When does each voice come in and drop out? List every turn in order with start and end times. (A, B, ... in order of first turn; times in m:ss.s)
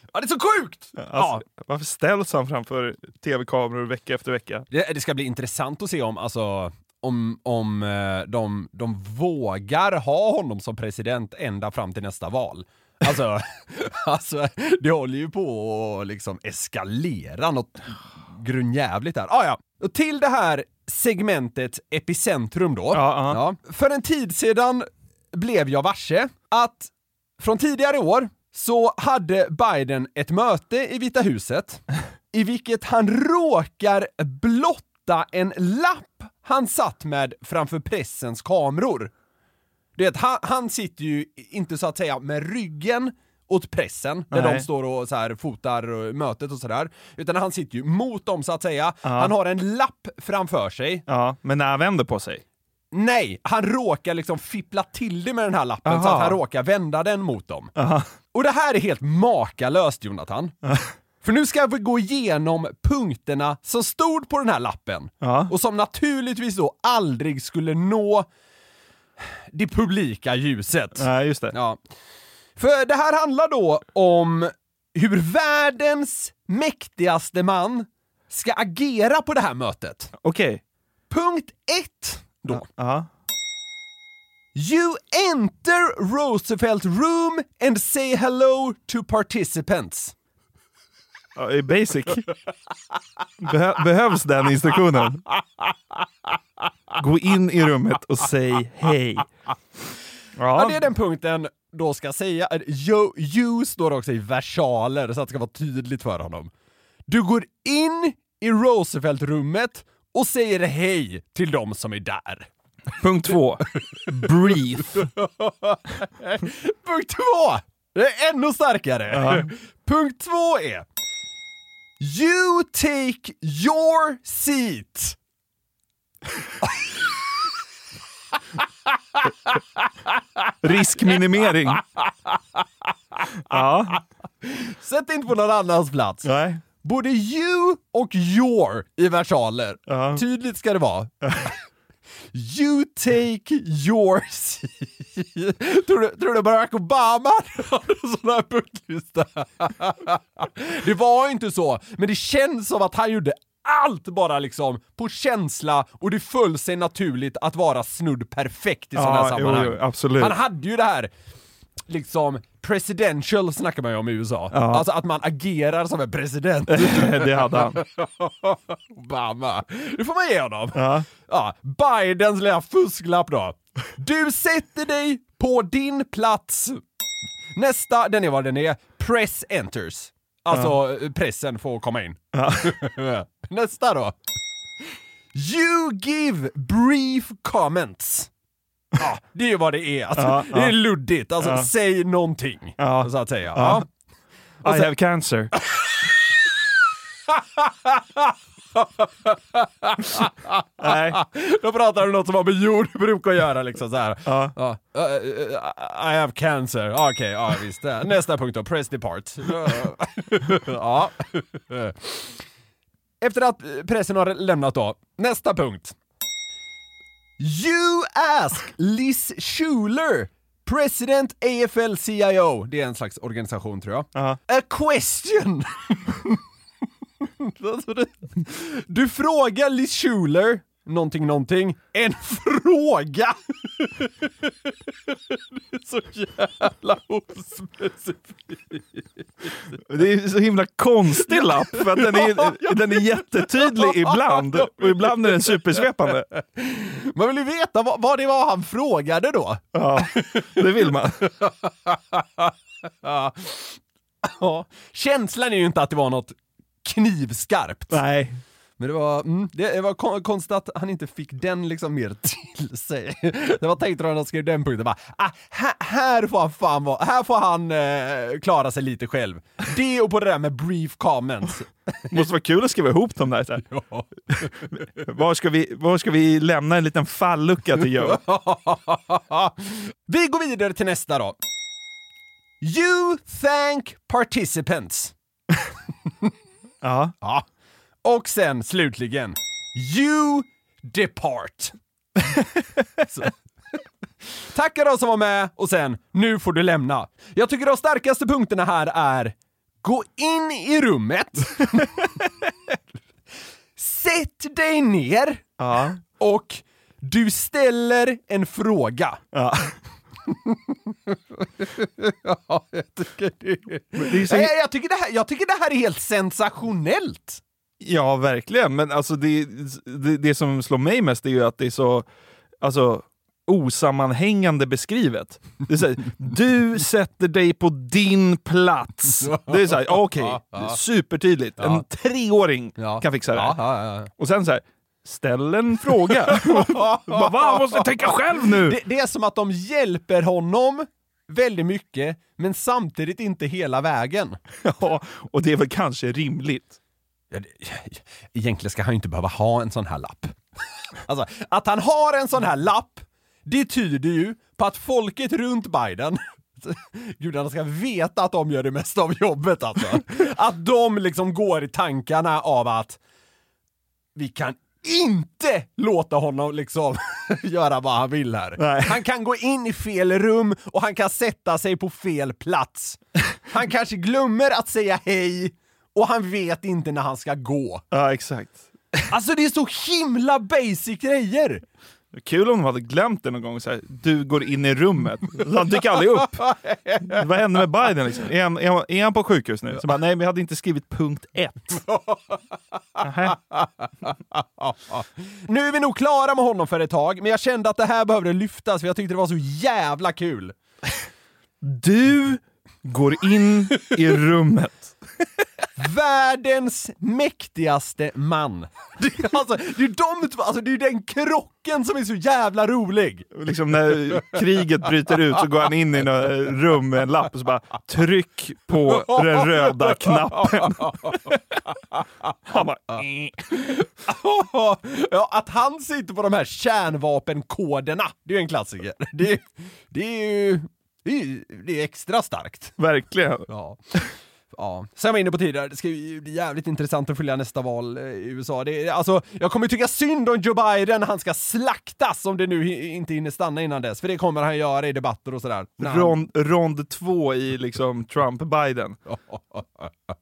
0:00.1-0:01.4 A
0:01.0-0:04.7 B
0:04.7-0:39.1 A
0:22.9-0:23.4 B
0:40.0-0:51.1 A
0:44.3-0:44.7 B
0:49.0-0:49.3 B
0:51.1-0:52.4 B
0:52.9-0:57.7 A
0:55.9-0:56.4 B
0:57.8-0:58.1 B
0:58.3-1:00.6 A
1:01.2-1:08.3 A
1:05.2-1:05.5 B
1:09.5-1:11.8 A
1:11.0-1:11.6 B
1:12.6-1:20.1 A
1:20.2-1:20.6 B
1:21.1-1:22.6 A
1:22.5-1:23.1 B
1:24.6-1:30.1 A
1:31.4-1:32.3 B
1:33.4-1:35.3 B
1:37.0-1:39.3 B
1:40.4-1:40.8 B
1:40.6-1:46.5 A
1:47.1-1:52.5 A
1:53.0-1:55.1 B
1:54.0-2:00.9 A
1:59.1-1:59.5 B
2:02.0-2:05.2 A
2:10.6-2:11.8 B
2:13.5-2:14.0 B
2:14.4-2:16.3 A
2:16.2-2:16.6 B
2:16.8-2:21.1 A
2:19.9-2:20.2 B
2:22.3-2:41.1 A
2:39.0-2:40.4 B
2:41.9-2:56.8 A
2:44.5-2:44.8 B
2:46.7-2:47.8 B
2:50.8-2:51.1 B
2:57.6-3:04.1 A
3:02.3-3:02.8 B
3:05.3-3:08.3 A
3:09.0-3:13.9 A
3:10.2-3:10.8 B
3:11.4-3:11.7 B
3:12.8-3:13.8 B
3:14.6-3:14.9 A
3:14.6-3:15.5 B
3:17.3-3:32.4 A
3:20.8-3:21.2 B
3:24.3-3:24.5 B
3:33.2-3:36.0 A
3:37.4-3:46.4 A
3:47.4-3:54.5 A
3:55.1-3:59.0 A
3:59.9-4:06.3 B
4:01.2-4:05.8 A
4:06.4-4:10.6 A
4:09.7-4:11.2 B
4:11.4-4:12.5 A
4:13.0-4:18.0 A
4:17.9-4:18.4 B
4:18.8-4:32.0 A
4:32.1-4:33.6 B
4:33.7-4:34.8 A
4:34.7-4:38.2 B
4:38.0-4:41.4 A
4:42.6-4:45.1 A
4:46.8-4:47.1 B
4:48.0-4:51.7 A
4:53.1-4:53.3 A
4:54.5-5:01.9 A
5:03.8-5:05.6 A
5:05.6-5:06.0 B
5:06.1-5:09.2 A
5:09.3-5:09.8 B
5:10.3-5:17.4 A
5:14.0-5:14.5 B
5:17.8-5:22.1 B
5:22.6-5:33.6 B
5:29.2-5:30.8 A
5:31.6-5:31.8 A
5:32.8-5:34.1 A
5:34.1-5:38.8 B
5:36.2-5:44.4 A
5:44.6-5:46.8 B
5:47.3-5:50.4 A
5:51.1-6:03.0 A
6:04.2-6:13.0 A
6:08.6-6:09.0 B
6:13.5-6:17.8 A
6:17.9-6:19.0 B
6:19.1-6:21.6 A
6:22.1-6:26.5 B
6:26.4-6:27.2 A
6:27.1-6:31.8 B
6:31.9-6:32.2 A
6:33.0-6:33.4 B
6:33.3-6:40.6 A
6:41.6-6:45.0 B
6:45.8-6:53.3 A
6:53.4-7:01.4 B
6:59.1-7:01.3 A
7:02.5-7:03.5 B
7:03.6-7:12.8 A
7:12.8-7:13.5 B
7:13.5-7:13.8 A
7:14.5-7:26.2 A
7:25.8-7:29.0 B
7:29.1-7:29.9 A